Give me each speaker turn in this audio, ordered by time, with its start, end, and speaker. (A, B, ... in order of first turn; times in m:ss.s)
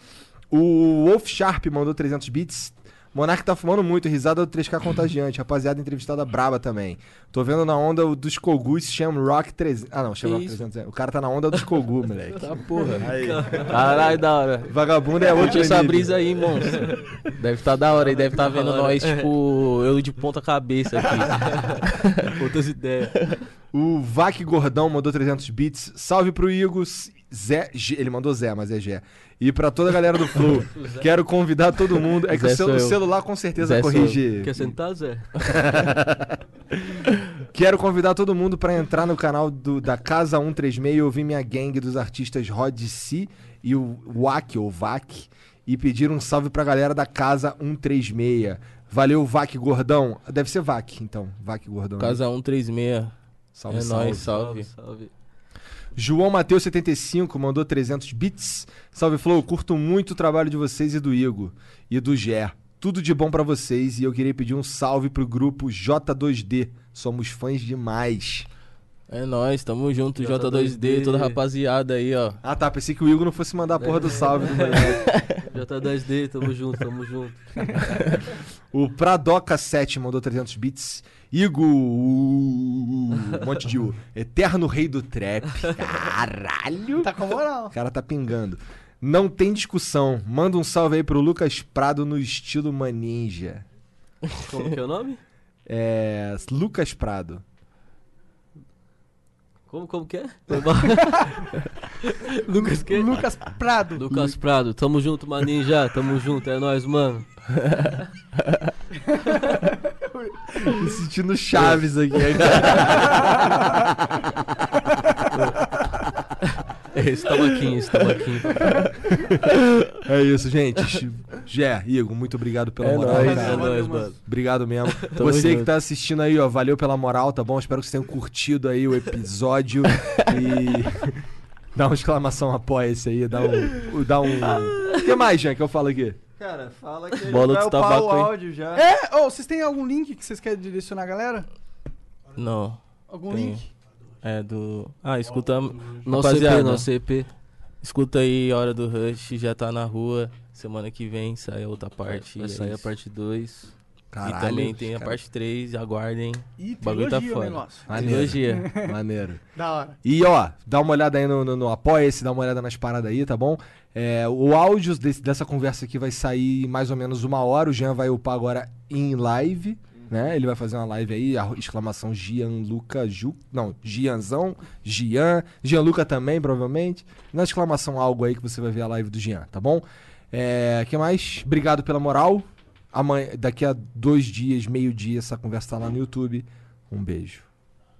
0:00.5-0:13.5 A
0:10.2-0:10.7 B
0:12.3-0:13.1 B
0:12.7-0:14.7 C
0:13.0-0:13.6 D
0:13.7-0:14.2 B
0:14.6-0:16.2 A
0:15.3-0:22.3 B
0:16.7-0:17.2 C
0:18.0-0:19.3 C
0:21.3-0:23.3 C
0:23.7-0:34.7 A
0:30.8-0:31.0 C
0:32.3-0:33.0 B
0:33.6-0:34.2 B
0:34.3-0:35.3 C
0:35.4-0:52.2 A
0:52.0-0:53.1 B
0:53.5-0:54.3 A
0:53.7-0:54.7 B
0:54.2-0:55.1 C
0:56.0-1:08.5 A
1:09.1-1:12.4 B
1:10.2-1:11.4 C
1:12.4-1:15.1 A
1:13.8-1:17.7 C
1:15.1-1:15.4 B
1:17.9-1:18.2 B
1:18.7-1:33.6 A
1:27.0-1:27.7 E
1:34.4-1:35.2 C
1:35.7-1:37.4 A
1:39.7-1:47.2 C
1:41.0-1:41.4 E
1:42.6-1:44.3 E
1:47.5-1:48.7 B
1:49.0-1:50.9 E
1:50.6-1:53.9 A
1:53.1-1:53.8 E
1:56.9-1:58.9 C
1:59.1-1:59.4 A
2:00.0-2:11.2 A
2:02.8-2:03.8 B
2:03.0-2:04.2 C
2:05.1-2:05.7 B
2:11.7-2:16.2 A
2:16.4-2:18.8 D
2:17.2-2:18.3 B
2:18.7-2:21.5 E
2:22.3-2:23.6 B
2:23.1-2:23.7 E
2:24.2-2:26.9 B
2:25.5-2:26.1 D
2:26.0-2:27.3 C
2:27.8-2:32.9 B
2:32.0-2:33.7 C
2:34.1-2:35.2 A
2:34.2-2:38.2 B
2:36.6-2:39.0 E
2:37.9-2:39.4 A
2:37.9-2:38.7 C
2:39.6-2:40.0 E
2:40.0-3:07.4 A